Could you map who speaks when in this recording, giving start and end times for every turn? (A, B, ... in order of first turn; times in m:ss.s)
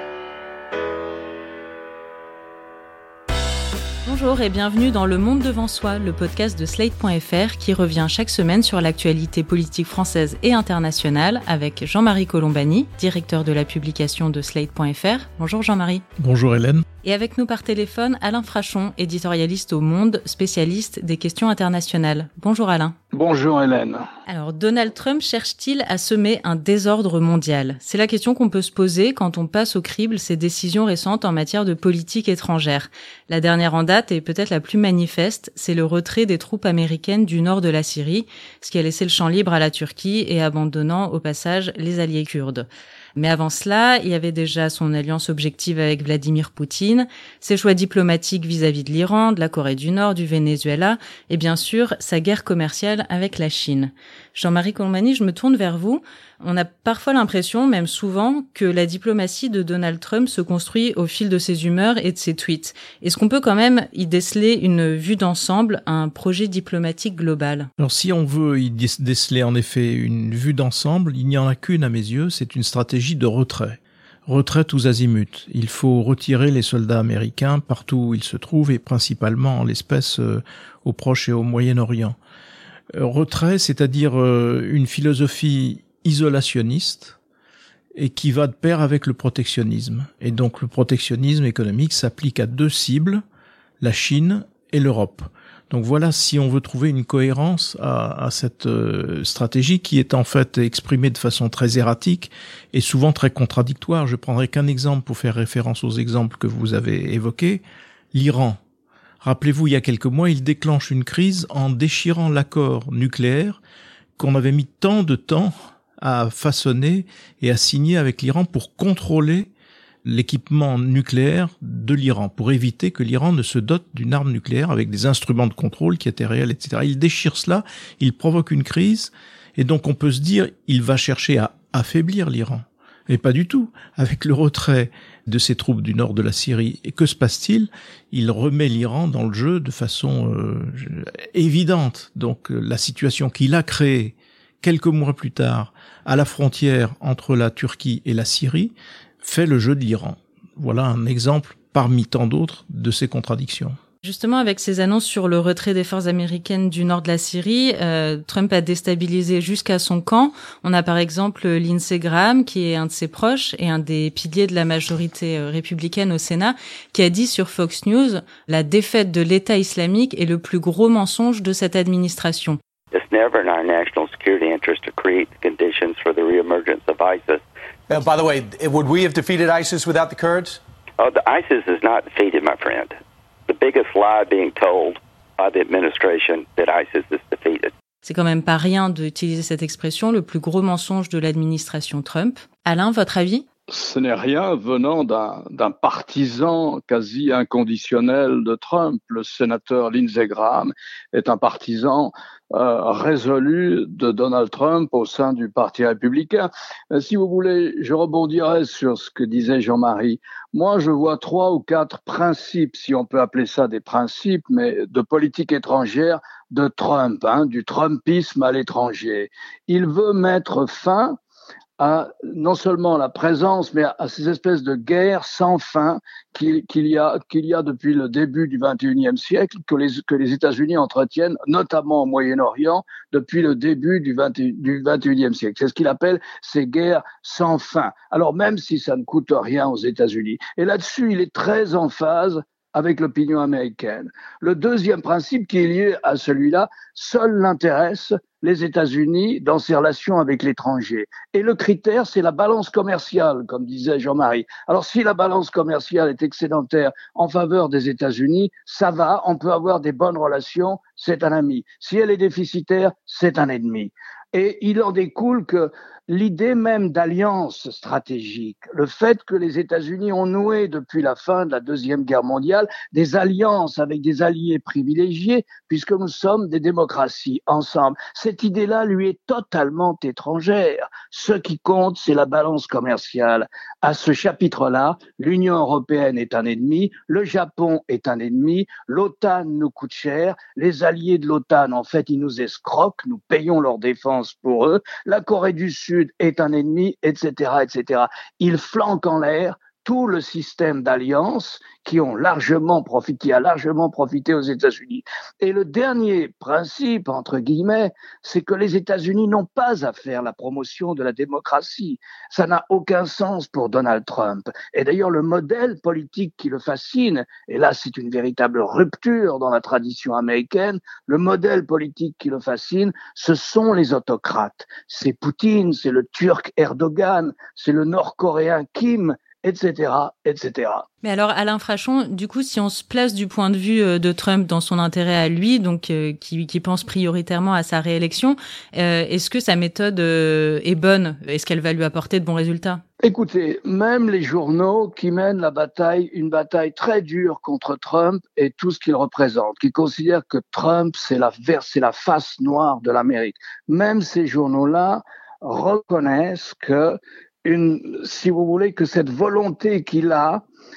0:04.0-0:16.0 A
0:16.2-0:16.8 B
0:17.0-0:22.9 A
0:23.1-0:24.0 C
0:24.3-1:07.7 A
1:07.8-1:22.2 B
1:22.9-1:27.2 B
1:28.0-1:33.2 B
1:33.8-1:47.6 B
1:48.1-1:48.6 B
1:49.2-1:53.6 B
1:54.2-1:59.5 B
2:00.0-2:33.8 B
2:34.0-2:52.6 A
2:52.9-2:57.4 D
2:57.9-3:00.6 E
3:01.0-3:02.9 D
3:03.5-3:07.7 D
3:08.0-3:13.4 A
3:13.7-3:41.2 C
3:41.8-5:30.8 C
5:31.0-5:42.8 A
5:43.0-6:00.4 C